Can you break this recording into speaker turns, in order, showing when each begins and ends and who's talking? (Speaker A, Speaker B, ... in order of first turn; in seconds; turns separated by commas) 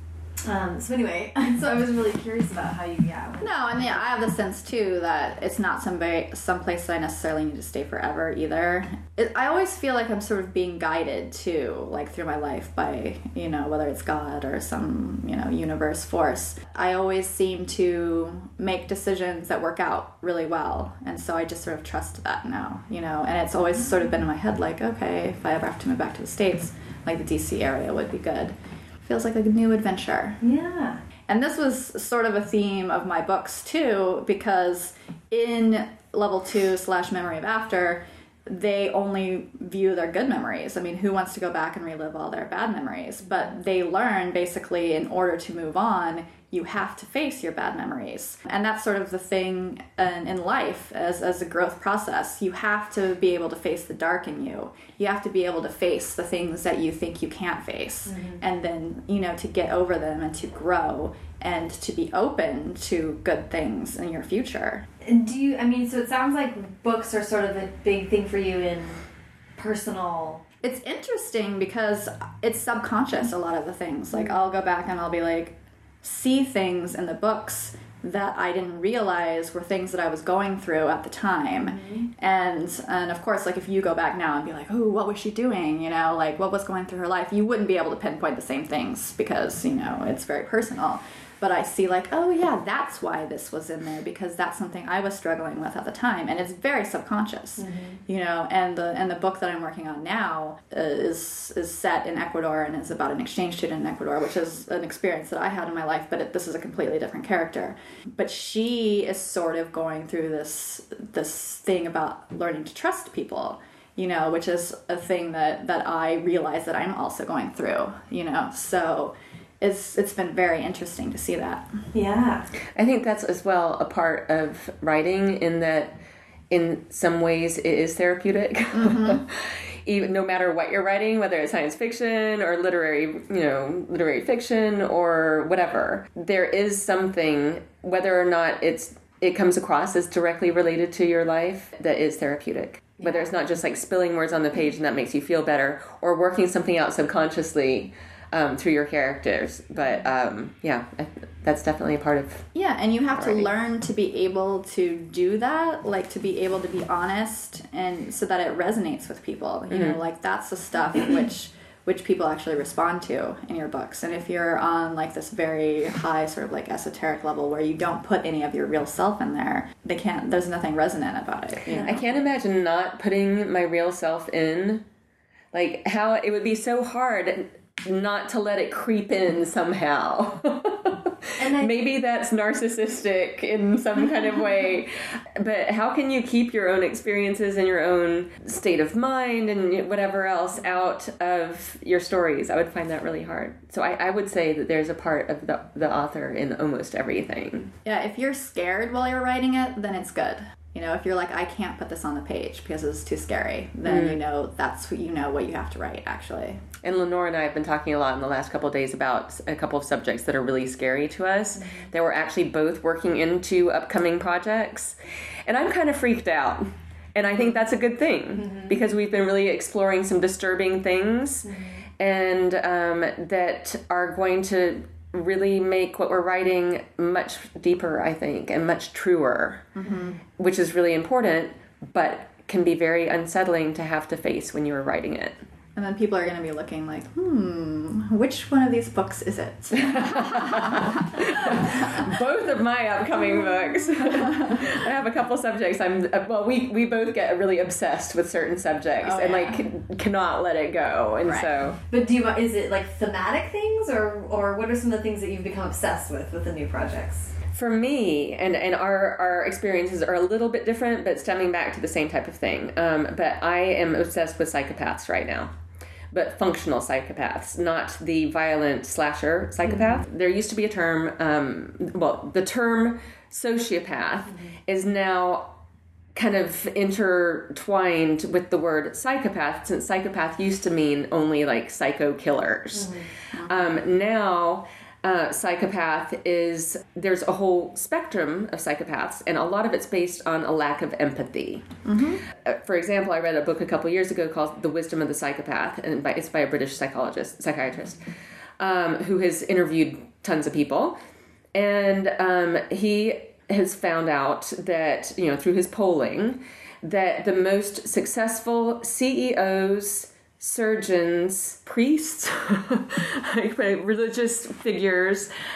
Speaker A: 0.4-3.5, Speaker B: 3.4-30.4, Speaker A: 30.4-31.0, Speaker B: 31.3-64.8, Speaker A: 58.0-58.4, Speaker A: 65.0-69.0, Speaker A: 69.6-70.4, Speaker B: 70.6-121.8, Speaker A: 81.6-82.1, Speaker A: 97.6-98.0, Speaker A: 121.9-122.5, Speaker C: 122.8-126.0, Speaker C: 126.5-152.4, Speaker B: 128.7-129.2, Speaker A: 143.0-143.3, Speaker B: 152.5-171.9, Speaker C: 153.1-153.5, Speaker C: 159.7-160.0, Speaker A: 171.7-172.0, Speaker C: 171.8-174.8, Speaker C: 175.5-197.7, Speaker A: 181.4-181.7, Speaker B: 197.8-206.6, Speaker C: 203.8-204.2, Speaker C: 206.8-221.5, Speaker A: 211.6-211.9, Speaker A: 218.4-218.7, Speaker A: 221.4-221.8, Speaker C: 222.0-229.7, Speaker B: 229.7-230.2, Speaker C: 230.4-235.4, Speaker B: 235.8-242.1, Speaker C: 239.7-251.8, Speaker B: 249.0-249.6, Speaker B: 251.2-251.5, Speaker A: 251.9-257.3, Speaker C: 257.5-265.5, Speaker C: 266.1-275.5, Speaker A: 269.7-270.0, Speaker A: 274.3-274.5, Speaker C: 276.1-282.9, Speaker A: 282.7-283.1, Speaker B: 283.3-283.8, Speaker C: 283.4-291.7, Speaker B: 291.8-292.2, Speaker C: 292.3-298.0, Speaker C: 298.6-301.0, Speaker C: 301.5-315.3